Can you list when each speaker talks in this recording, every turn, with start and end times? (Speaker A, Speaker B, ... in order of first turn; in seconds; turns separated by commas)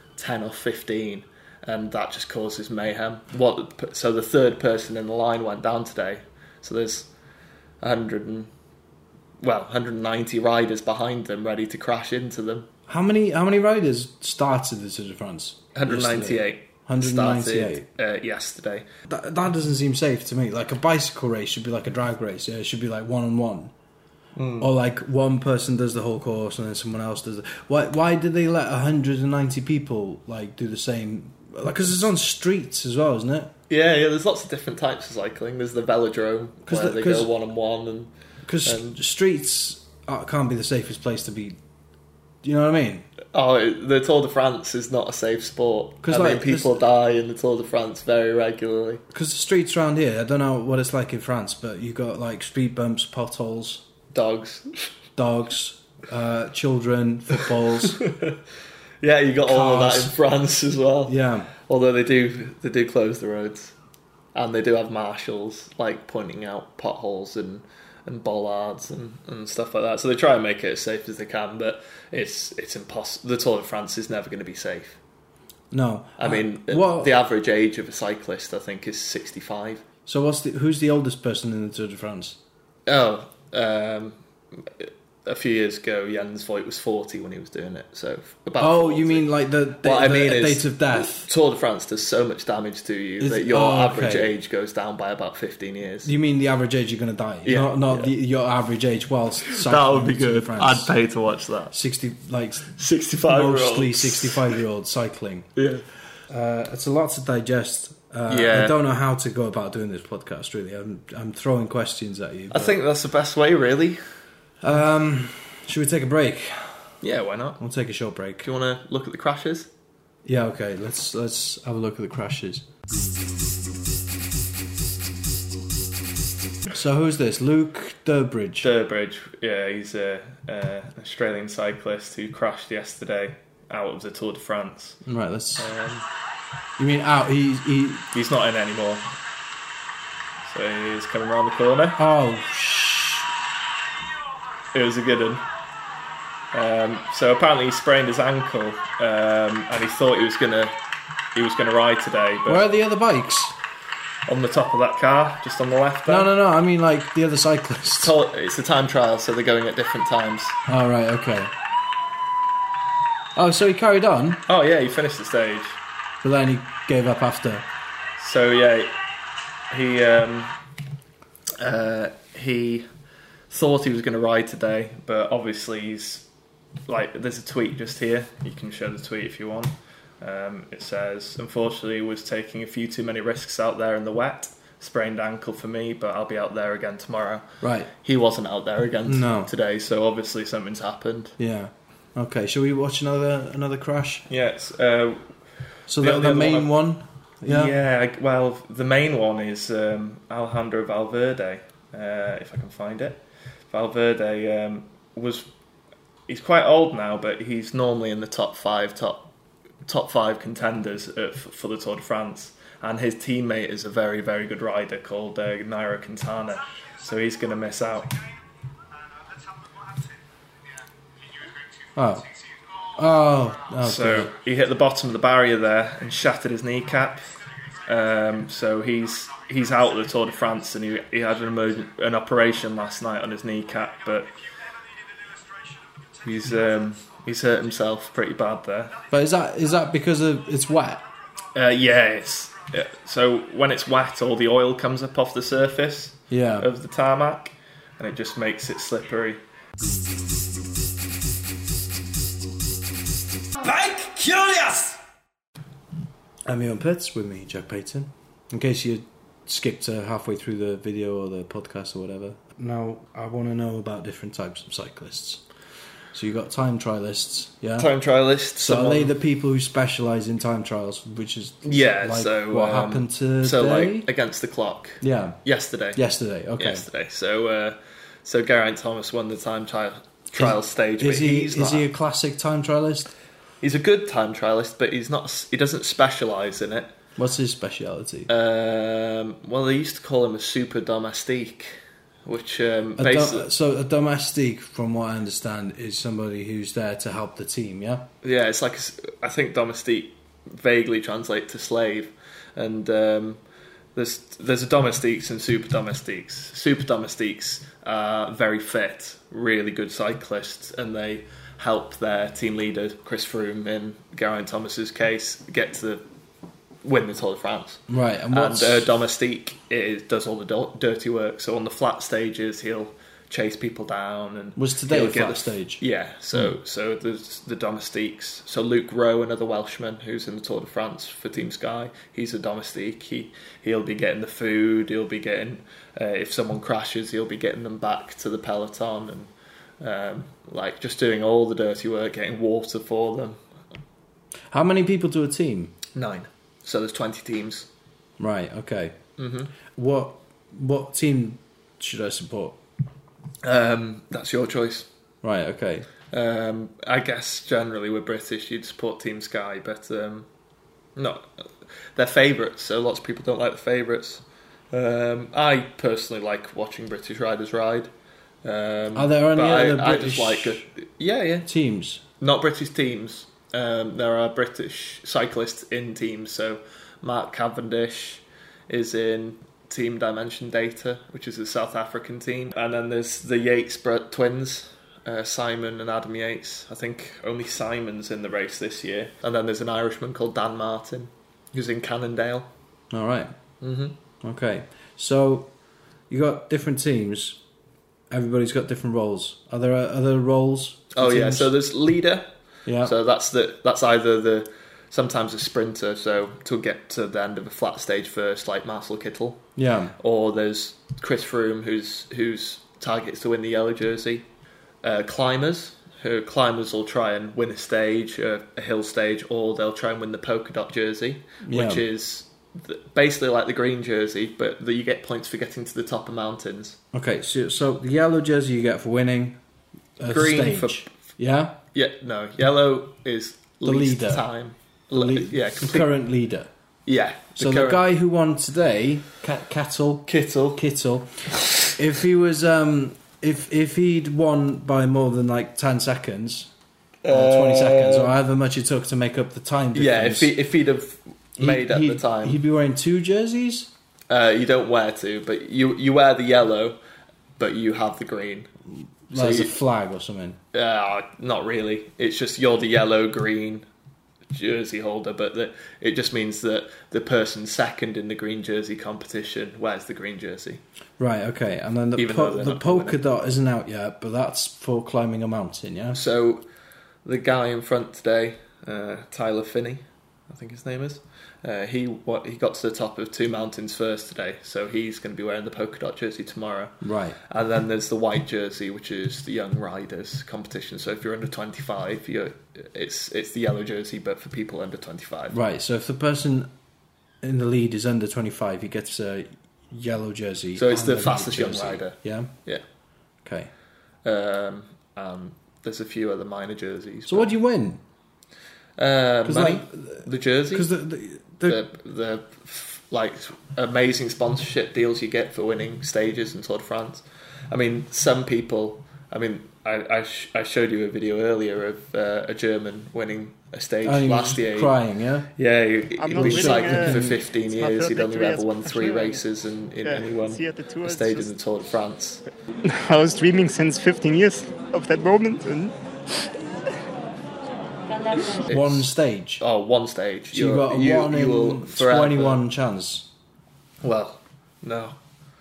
Speaker A: 0.2-7.1, Speaker A: 7.8-8.5, Speaker A: 9.4-12.7, Speaker B: 12.9-17.9, Speaker A: 15.8-18.9, Speaker B: 19.1-23.7, Speaker A: 24.4-24.7, Speaker B: 24.6-33.5, Speaker A: 33.7-38.1, Speaker B: 36.7-37.3, Speaker B: 38.5-41.6, Speaker A: 38.6-39.0, Speaker B: 42.4-43.1, Speaker A: 43.3-49.0, Speaker B: 46.0-46.7, Speaker B: 49.1-53.9, Speaker A: 54.1-54.9, Speaker B: 55.2-58.0, Speaker A: 57.8-58.4, Speaker A: 59.0-63.7, Speaker B: 59.5-60.1, Speaker B: 61.1-61.5, Speaker A: 64.3-75.0, Speaker B: 75.7-77.2, Speaker A: 76.2-79.8, Speaker B: 80.1-82.4, Speaker A: 82.9-89.3, Speaker B: 88.6-91.3, Speaker A: 89.8-96.1, Speaker B: 93.2-94.3, Speaker B: 96.0-100.9, Speaker A: 97.4-98.1, Speaker A: 99.5-101.7, Speaker B: 101.7-102.7, Speaker A: 102.7-104.5, Speaker B: 103.3-105.5, Speaker A: 105.6-105.8, Speaker B: 106.3-112.8, Speaker A: 108.3-108.8, Speaker A: 112.5-114.0, Speaker B: 114.6-117.0, Speaker A: 117.0-117.6, Speaker B: 117.6-118.5, Speaker A: 118.4-119.7, Speaker B: 120.2-122.7, Speaker B: 126.7-128.7, Speaker A: 128.6-135.0, Speaker B: 135.1-135.7, Speaker A: 135.6-136.1, Speaker B: 136.8-138.1, Speaker A: 138.1-139.1, Speaker A: 140.5-142.0, Speaker B: 142.0-143.3, Speaker A: 144.7-145.4, Speaker A: 146.5-150.8, Speaker A: 151.3-152.6, Speaker B: 152.5-153.5, Speaker A: 154.3-156.3, Speaker B: 156.1-158.1, Speaker A: 158.0-160.6, Speaker B: 160.7-161.5, Speaker B: 163.4-164.4, Speaker A: 164.5-165.8, Speaker B: 166.2-167.7, Speaker A: 168.2-168.9, Speaker A: 169.7-170.6, Speaker A: 171.6-172.9, Speaker A: 173.5-176.3, Speaker A: 176.9-187.5, Speaker B: 187.6-187.9, Speaker A: 188.0-191.4, Speaker B: 189.1-189.5, Speaker B: 191.4-194.3, Speaker A: 194.3-195.2, Speaker B: 195.9-197.7, Speaker A: 196.0-196.7, Speaker A: 197.4-205.5, Speaker A: 206.3-209.3, Speaker A: 209.9-218.2, Speaker B: 221.9-222.3, Speaker B: 222.9-224.3, Speaker A: 223.8-227.3, Speaker A: 227.8-234.3, Speaker A: 236.2-239.1, Speaker B: 239.1-241.0, Speaker A: 241.5-249.4, Speaker B: 246.3-246.7, Speaker B: 253.6-255.0, Speaker B: 256.5-265.4, Speaker B: 266.1-267.9, Speaker A: 267.8-269.1, Speaker B: 268.6-274.1, Speaker A: 271.6-276.0, Speaker B: 275.0-275.4, Speaker B: 275.9-276.9, Speaker A: 276.6-281.9, Speaker B: 280.4-283.1, Speaker A: 283.6-286.9, Speaker B: 287.2-288.3, Speaker A: 288.3-293.5, Speaker B: 293.0-298.1, Speaker A: 298.2-303.4, Speaker A: 303.9-316.0, Speaker A: 316.8-343.4, Speaker B: 317.9-318.9, Speaker B: 324.6-325.8, Speaker B: 344.5-345.8, Speaker A: 345.9-347.7, Speaker B: 348.2-349.0, Speaker A: 349.2-349.5, Speaker B: 349.7-352.6, Speaker A: 353.4-354.9, Speaker B: 355.2-355.9, Speaker A: 356.1-360.3, Speaker A: 361.0-367.9, Speaker A: 368.4-371.5, Speaker B: 368.9-370.7, Speaker B: 371.4-372.0, Speaker A: 372.2-392.5, Speaker B: 392.9-393.4, Speaker A: 393.6-394.0, Speaker B: 394.2-395.5, Speaker B: 396.1-397.4, Speaker B: 398.1-401.5, Speaker A: 400.9-409.4, Speaker B: 402.7-402.9, Speaker B: 409.6-409.9, Speaker A: 410.0-414.3, Speaker A: 414.8-426.8, Speaker B: 421.4-421.8, Speaker B: 426.9-429.4, Speaker B: 430.0-431.6, Speaker A: 430.1-430.9, Speaker A: 431.7-435.9, Speaker B: 433.6-434.2, Speaker B: 434.9-436.5, Speaker A: 436.9-437.8, Speaker B: 437.4-446.5, Speaker A: 440.1-440.6, Speaker A: 441.4-441.7, Speaker A: 447.0-448.1, Speaker B: 447.1-450.3, Speaker A: 449.7-452.4, Speaker B: 451.4-453.7, Speaker A: 454.1-456.8, Speaker A: 457.4-458.5, Speaker B: 459.1-460.4, Speaker A: 459.1-459.5, Speaker A: 460.5-463.6, Speaker A: 464.3-470.6, Speaker B: 471.0-476.0, Speaker A: 472.0-473.0, Speaker A: 475.9-476.4, Speaker A: 477.1-495.4, Speaker B: 486.8-487.2, Speaker B: 495.3-496.5, Speaker B: 497.2-502.3, Speaker A: 500.6-502.6, Speaker B: 503.2-503.5, Speaker A: 504.1-507.3, Speaker B: 507.1-507.8, Speaker A: 508.8-510.7, Speaker B: 509.2-511.6, Speaker A: 511.4-524.8, Speaker B: 523.8-525.3, Speaker A: 525.4-532.2, Speaker C: 526.0-529.2, Speaker B: 526.1-527.2, Speaker C: 529.8-531.3, Speaker C: 532.6-535.8, Speaker A: 538.1-538.9, Speaker B: 538.5-539.4, Speaker A: 539.4-542.4, Speaker B: 540.3-543.1, Speaker A: 543.8-545.0